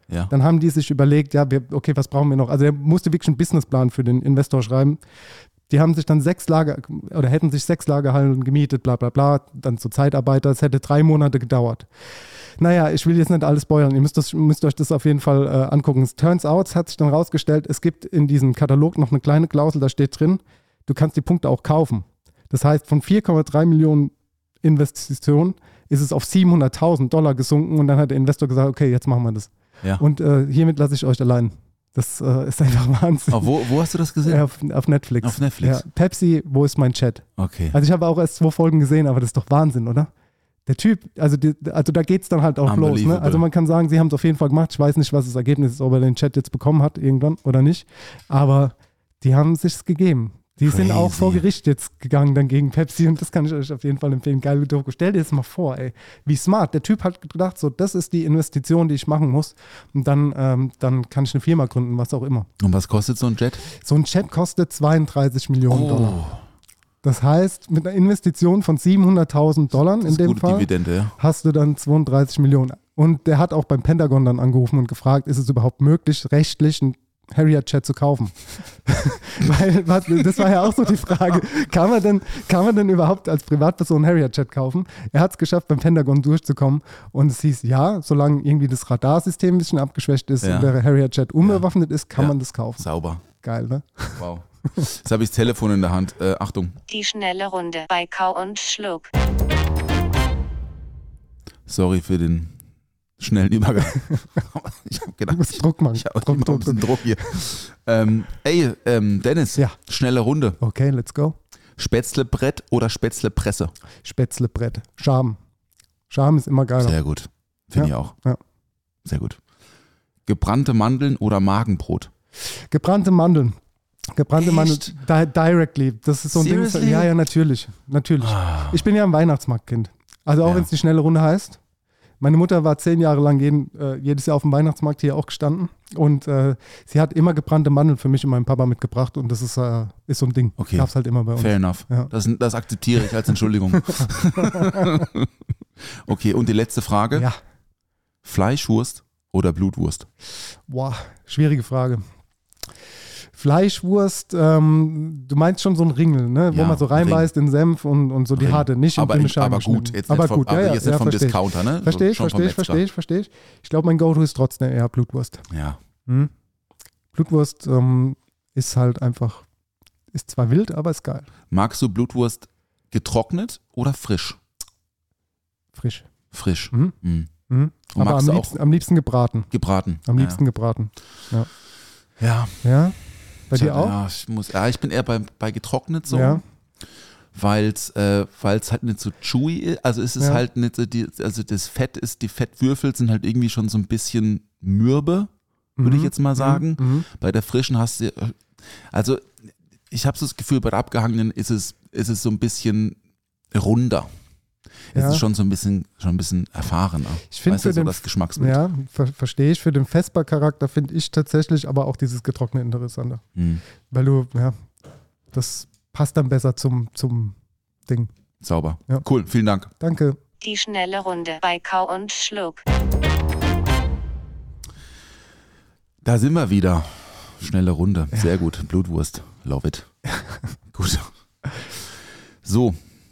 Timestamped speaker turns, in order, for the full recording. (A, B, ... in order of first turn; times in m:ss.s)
0:00.3-0:05.0 A
0:05.7-0:11.9 A
0:12.6-0:33.5 A
0:33.3-0:34.4 B
0:34.2-0:40.1 A
0:35.2-0:35.8 B
0:37.4-0:37.8 B
0:40.6-1:02.5 A
0:42.6-0:43.4 B
0:50.6-0:51.4 B
1:02.6-1:03.7 B
1:03.8-1:06.2 A
1:05.7-1:06.4 B
1:07.0-1:34.2 A
1:10.0-1:11.1 B
1:30.4-1:30.7 B
1:31.4-1:33.2 B
1:34.2-1:36.8 B
1:36.9-1:39.1 C
1:41.7-1:42.6 B
1:43.2-1:50.6 B
1:45.3-1:47.2 A
1:50.6-1:51.3 A
1:51.8-1:53.7 B
1:54.0-1:55.4 A
1:56.1-1:57.0 A
1:56.8-1:58.1 B
1:57.8-1:58.4 A
1:59.0-1:59.4 B
2:00.2-2:02.1 B
2:02.4-2:03.6 A
2:04.1-2:11.6 A
2:04.4-2:04.9 B
2:06.3-2:07.1 B
2:08.2-2:08.8 B
2:10.4-2:10.7 B
2:12.2-2:22.1 A
2:20.6-2:25.3 B
2:23.9-2:24.9 A
2:25.8-2:27.3 B
2:28.2-2:30.1 B
2:30.7-2:32.0 A
2:33.3-2:45.4 A
2:36.5-2:37.3 B
2:38.3-2:42.8 B
2:45.5-2:45.8 B
2:46.0-2:46.3 A
2:47.1-2:49.4 A
2:50.1-2:51.3 A
2:51.5-2:54.4 B
2:55.7-2:56.1 A
2:56.3-2:57.3 B
2:56.7-2:57.0 A
2:57.5-2:59.5 A
2:57.9-2:58.6 B
2:59.5-3:00.4 B
3:00.0-3:01.5 A
3:02.2-3:02.8 B
3:02.6-3:04.0 A
3:03.5-3:15.3 B
3:06.1-3:06.4 A
3:15.8-3:17.0 A
3:15.8-3:23.0 B
3:23.5-3:24.1 B
3:24.9-3:28.6 B
3:24.9-3:25.2 A
3:27.3-3:33.2 A
3:33.3-3:33.6 B
3:33.9-3:34.6 A
3:35.3-3:37.3 A
3:38.4-3:39.7 B
3:39.8-3:40.2 A
3:40.4-3:42.6 C
3:46.0-3:50.0 B
3:50.7-3:51.1 B
3:52.4-3:52.8 B